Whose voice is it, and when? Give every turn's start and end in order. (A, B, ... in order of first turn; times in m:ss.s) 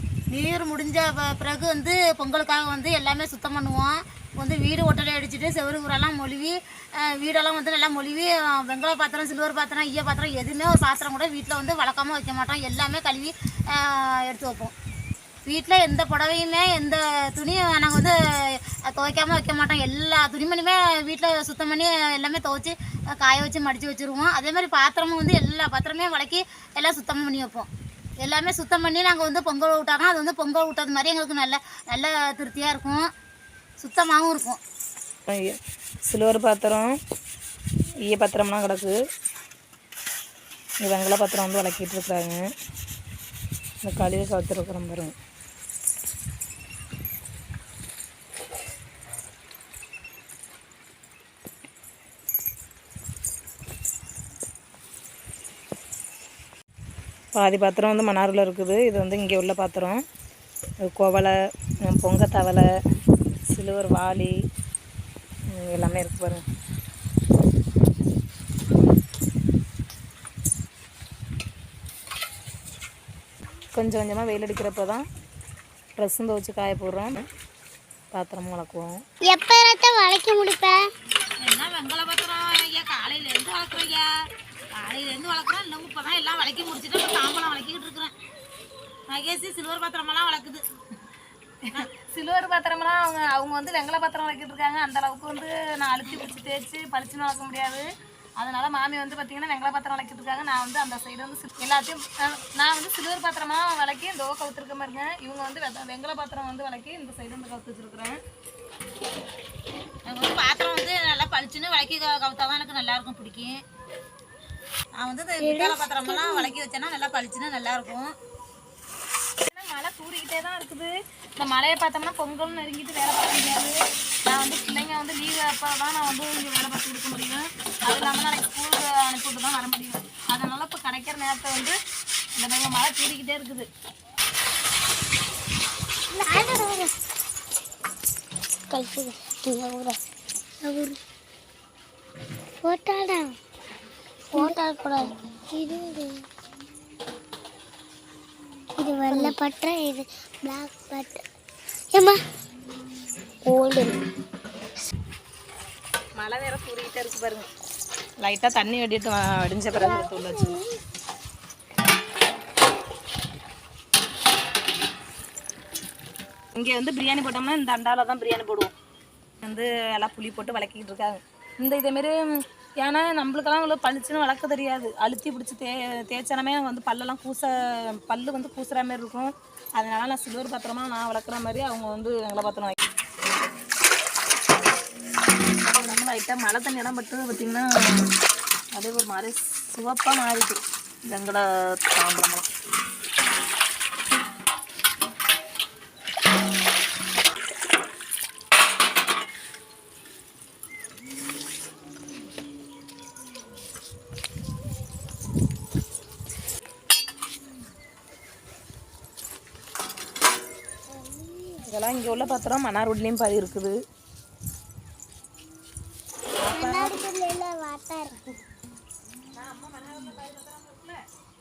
0:00.3-0:14.7 A
0:15.4-0:27.7 A
0:28.2-0:33.1 A
0:33.8-0:34.6 A
0:35.3-0:36.9 B
0:38.1-0:39.0 B
0:40.8-0:42.5 B
0:43.8-0:45.1 B
0:57.3-1:00.0 B
1:00.8-1:01.3 B
1:01.8-1:02.7 B
1:03.5-1:04.4 B
1:05.5-1:06.4 B
1:13.7-1:15.0 B
1:16.0-1:17.2 B
1:18.1-1:19.0 B
1:19.2-1:20.9 C
1:21.4-1:24.1 A
1:24.8-1:28.1 A
1:29.1-1:30.6 A
1:31.8-1:37.8 B
1:38.4-1:48.2 B
1:50.0-1:53.6 A
1:55.0-1:58.1 A
1:55.4-1:56.5 C
1:59.5-2:11.8 B
2:12.4-2:13.7 B
2:16.1-2:16.9 C
2:18.7-2:20.0 C
2:20.6-2:21.0 C
2:22.6-2:23.3 C
2:24.3-2:26.2 C
2:28.8-2:31.2 C
2:29.1-2:29.4 B
2:31.9-2:32.2 C
2:33.4-2:34.0 C
2:36.2-2:37.5 B
2:38.2-2:40.6 B
2:39.8-2:40.7 C
2:46.5-2:48.7 B
2:49.4-2:52.2 B
2:52.8-3:02.8 B
3:05.7-3:08.1 B
3:08.7-3:12.5 B
3:30.9-3:31.7 C
3:31.6-3:33.8 B
3:36.4-3:37.0 B
3:36.4-3:38.2 C
3:39.3-3:41.0 B